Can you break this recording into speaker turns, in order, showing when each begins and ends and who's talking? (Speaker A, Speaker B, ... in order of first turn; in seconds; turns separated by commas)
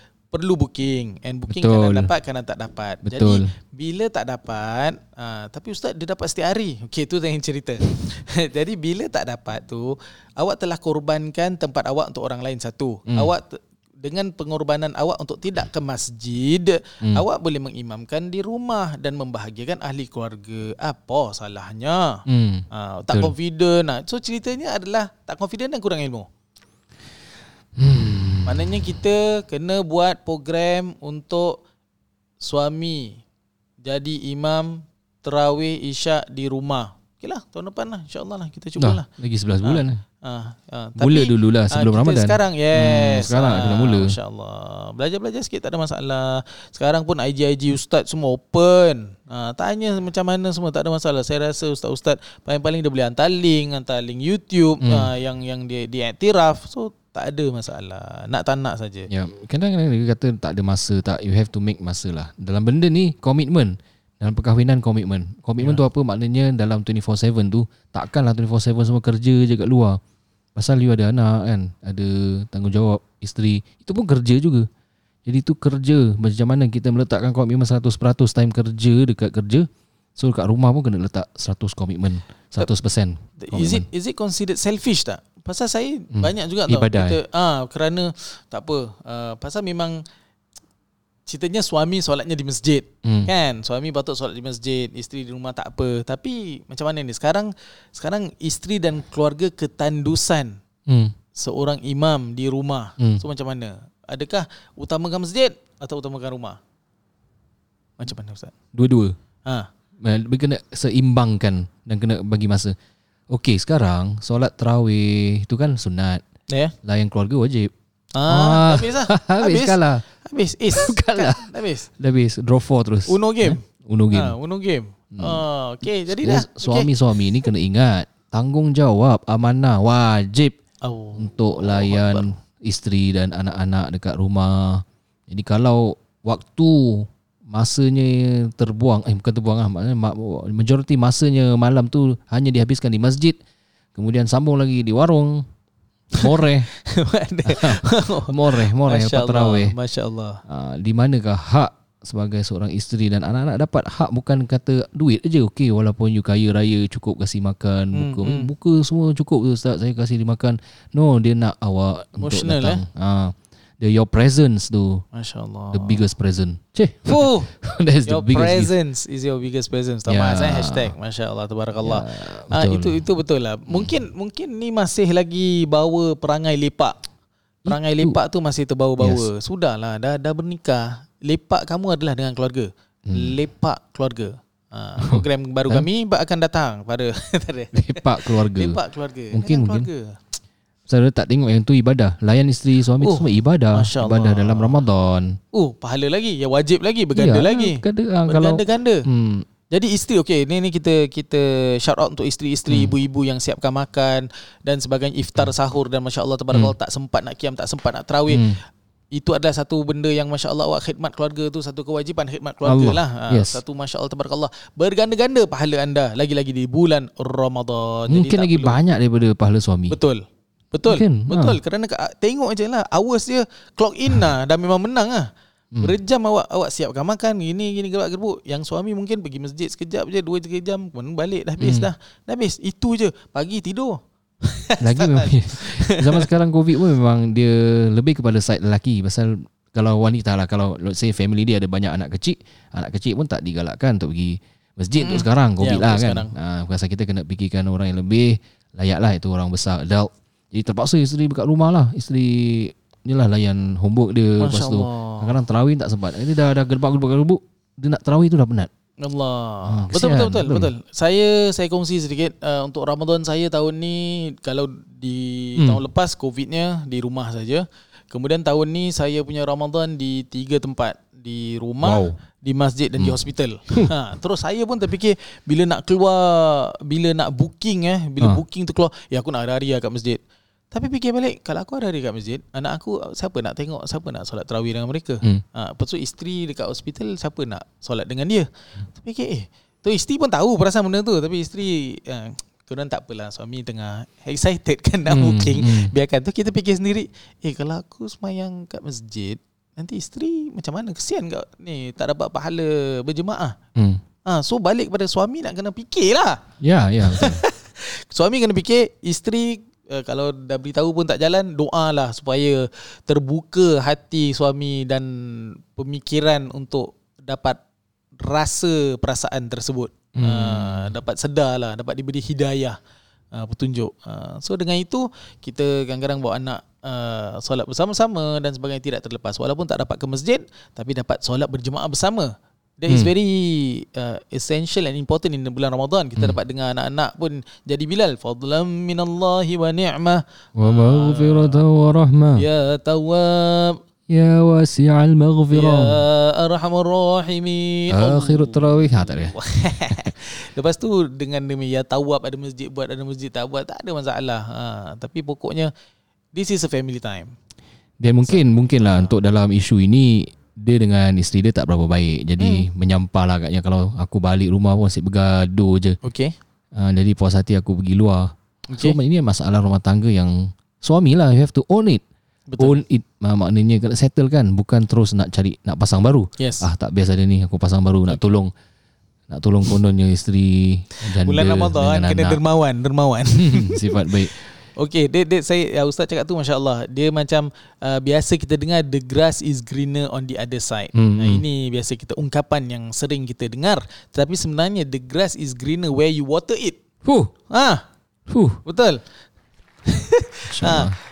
Speaker A: 0.3-26.3, Speaker B: 1.5-2.1, Speaker B: 3.0-3.5, Speaker B: 22.3-23.3, Speaker B: 27.8-29.0, Speaker A: 28.4-31.6, Speaker A: 32.4-33.2, Speaker A: 33.8-39.0, Speaker B: 38.8-40.0, Speaker A: 39.6-59.1, Speaker B: 41.0-44.1, Speaker B: 54.8-55.1, Speaker B: 59.1-70.0, Speaker B: 70.5-74.7, Speaker B: 75.2-83.8, Speaker A: 83.4-90.0, Speaker B: 86.1-87.2, Speaker A: 91.3-100.6, Speaker B: 93.0-93.3, Speaker B: 100.9-101.1, Speaker A: 101.3-106.6, Speaker A: 108.0-108.5, Speaker B: 108.7-109.1, Speaker B: 110.0-112.8, Speaker B: 113.3-116.2, Speaker B: 116.8-117.7, Speaker A: 118.2-121.9, Speaker B: 118.3-120.0, Speaker B: 120.7-121.5, Speaker B: 122.0-124.3, Speaker A: 123.1-126.9, Speaker B: 125.2-125.4, Speaker B: 126.1-130.6, Speaker A: 130.8-132.2, Speaker B: 131.2-143.4, Speaker B: 143.9-145.4, Speaker B: 146.1-146.7, Speaker A: 146.2-150.4, Speaker B: 147.5-149.7, Speaker B: 150.5-165.0, Speaker A: 157.9-158.5, Speaker A: 162.2-162.8, Speaker A: 165.1-166.0, Speaker B: 165.7-168.7, Speaker A: 167.1-167.5, Speaker A: 168.1-177.0, Speaker B: 170.1-170.9, Speaker B: 171.8-173.0, Speaker B: 177.7-178.2, Speaker A: 177.7-190.2, Speaker B: 179.0-179.2, Speaker B: 183.1-183.3, Speaker B: 185.0-185.8, Speaker B: 187.7-188.8, Speaker B: 189.3-189.9, Speaker B: 190.9-195.4, Speaker A: 193.0-194.8, Speaker A: 195.5-199.1, Speaker B: 197.1-199.4, Speaker A: 199.7-208.6, Speaker B: 208.3-208.6, Speaker A: 209.1-218.8, Speaker B: 212.6-213.6, Speaker B: 218.1-220.0, Speaker A: 219.9-236.3, Speaker B: 220.9-221.6, Speaker B: 231.6-231.9, Speaker B: 234.8-258.7, Speaker A: 245.0-246.3, Speaker A: 254.4-255.3, Speaker A: 259.0-280.2, Speaker B: 259.7-260.7, Speaker B: 271.8-272.1, Speaker A: 280.7-303.6, Speaker B: 295.1-295.9, Speaker B: 303.7-304.0, Speaker A: 304.2-317.6, Speaker B: 306.6-307.4, Speaker A: 318.2-322.8, Speaker B: 320.1-320.9, Speaker A: 323.3-341.6, Speaker B: 340.6-342.4, Speaker A: 342.4-343.8, Speaker B: 344.1-346.0, Speaker A: 345.5-355.7, Speaker B: 347.9-349.3, Speaker A: 356.3-357.3, Speaker B: 358.0-366.0, Speaker A: 358.2-359.1, Speaker A: 362.4-362.6, Speaker A: 366.0-366.3, Speaker B: 366.7-372.0, Speaker A: 368.7-369.0, Speaker A: 372.5-372.8, Speaker B: 372.6-378.5, Speaker A: 376.4-376.6, Speaker B: 379.3-382.4, Speaker A: 381.2-384.2, Speaker B: 383.4-384.3, Speaker A: 384.8-396.8, Speaker B: 390.9-391.4, Speaker B: 397.0-397.3, Speaker A: 397.5-397.8, Speaker B: 398.3-398.6, Speaker A: 398.6-399.0, Speaker A: 399.9-400.9, Speaker B: 400.5-401.0